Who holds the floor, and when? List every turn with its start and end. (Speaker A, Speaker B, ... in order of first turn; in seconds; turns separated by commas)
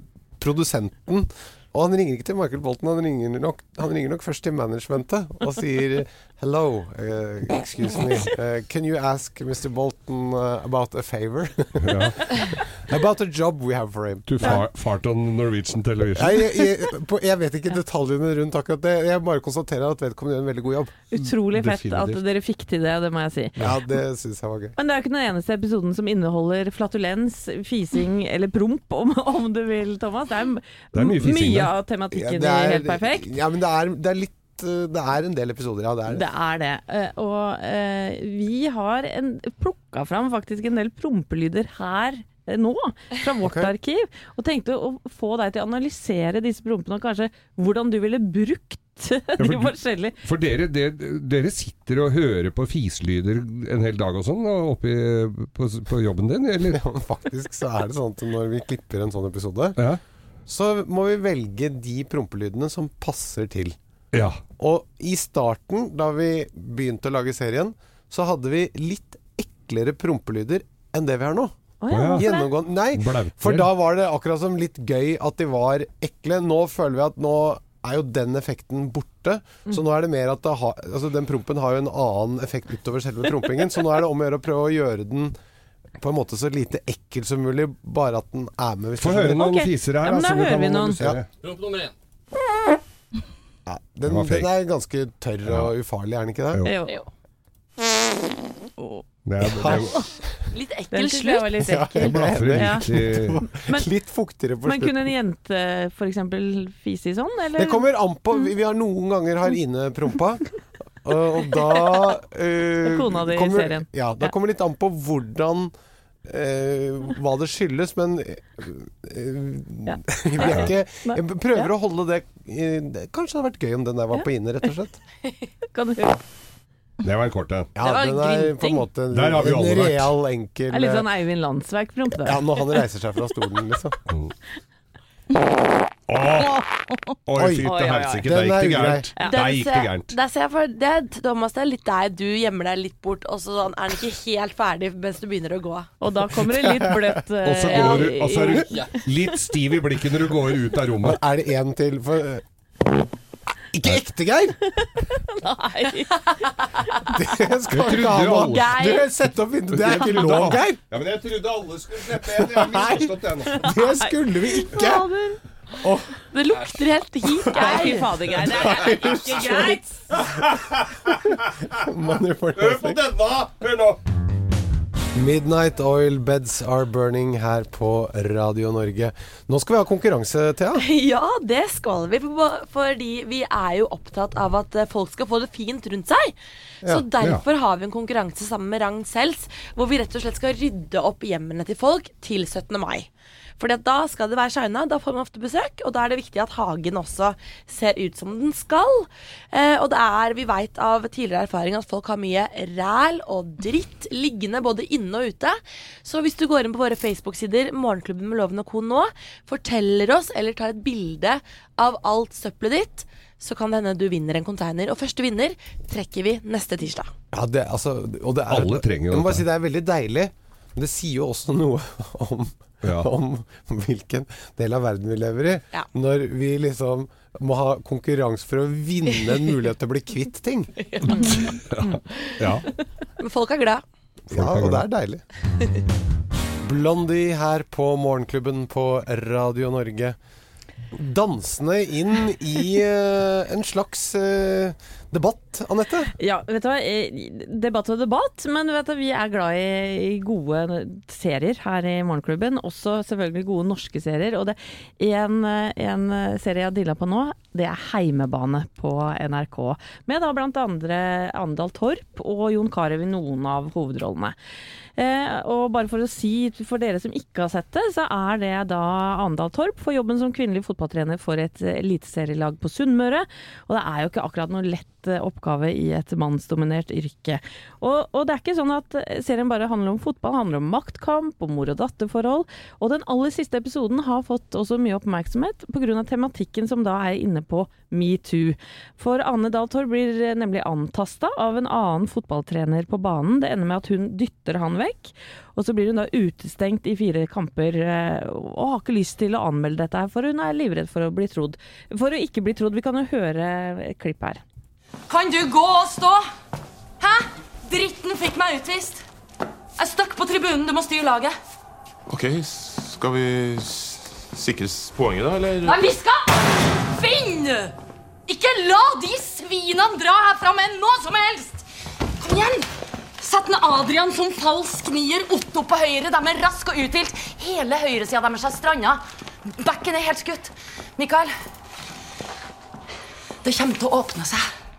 Speaker A: 0.4-14.6, Speaker B: 11.8-12.3, Speaker B: 14.3-16.6, Speaker A: 16.1-20.9, Speaker C: 21.1-23.6, Speaker B: 21.1-22.2, Speaker A: 23.6-24.8, Speaker C: 24.8-33.3, Speaker B: 30.9-31.7, Speaker A: 32.1-36.2, Speaker C: 36.1-50.1, Speaker A: 43.4-43.7, Speaker B: 49.4-56.8, Speaker A: 56.7-59.8, Speaker A: 60.5-63.8, Speaker B: 64.1-64.4, Speaker A: 64.6-71.5, Speaker C: 71.8-72.5, Speaker B: 71.9-72.3, Speaker A: 72.2-85.3, Speaker B: 72.9-73.7, Speaker A: 86.0-89.4, Speaker B: 89.0-91.3, Speaker C: 89.3-91.0, Speaker A: 93.7-96.6, Speaker B: 94.0-94.5, Speaker B: 95.5-95.7, Speaker B: 96.5-96.8, Speaker C: 96.6-97.0, Speaker B: 99.2-100.0, Speaker A: 99.5-100.0, Speaker D: 100.5-101.6, Speaker C: 100.9-102.9, Speaker A: 101.6-105.1, Speaker B: 102.0-103.4, Speaker C: 103.5-103.9, Speaker C: 104.6-107.8, Speaker A: 107.6-110.5, Speaker A: 111.0-115.7, Speaker C: 112.8-114.3, Speaker A: 116.3-125.0, Speaker C: 119.9-121.7, Speaker C: 125.7-126.2, Speaker B: 127.0-127.7, Speaker A: 127.8-131.1, Speaker D: 127.8-128.9, Speaker B: 129.1-130.1, Speaker C: 130.7-132.8, Speaker A: 132.2-134.0, Speaker B: 134.1-134.3, Speaker B: 136.1-136.7, Speaker B: 137.2-140.1, Speaker A: 137.3-139.1, Speaker C: 137.6-138.2, Speaker C: 139.2-139.4, Speaker D: 139.2-145.9, Speaker C: 146.0-149.0, Speaker A: 146.6-146.9, Speaker B: 147.4-151.2, Speaker D: 147.7-148.0, Speaker A: 151.0-152.4, Speaker A: 153.7-154.6, Speaker C: 155.2-156.3, Speaker A: 157.1-160.8, Speaker B: 157.7-158.8, Speaker D: 158.3-159.1, Speaker B: 159.7-163.7, Speaker A: 162.3-165.1, Speaker C: 163.7-165.4, Speaker A: 165.8-166.1, Speaker D: 166.3-168.1, Speaker A: 167.3-169.8, Speaker C: 167.5-170.0, Speaker B: 170.1-171.7, Speaker A: 171.1-173.0, Speaker B: 172.5-174.0, Speaker A: 175.1-180.8, Speaker D: 180.8-217.1, Speaker A: 217.3-230.7, Speaker B: 218.5-219.4, Speaker B: 222.8-223.1, Speaker D: 230.9-231.5, Speaker B: 231.1-232.7, Speaker C: 231.1-231.4, Speaker D: 233.2-233.8, Speaker A: 234.3-235.2, Speaker B: 234.3-234.8, Speaker A: 236.6-240.2, Speaker A: 240.9-246.1, Speaker C: 246.2-264.3, Speaker C: 265.0-304.4, Speaker E: 305.1-306.2, Speaker E: 307.0-309.0, Speaker E: 309.8-311.3, Speaker F: 312.1-315.9, Speaker E: 315.6-317.7, Speaker E: 318.3-321.6, Speaker E: 322.2-322.6, Speaker E: 323.2-329.0, Speaker E: 329.6-331.3, Speaker E: 333.4-334.4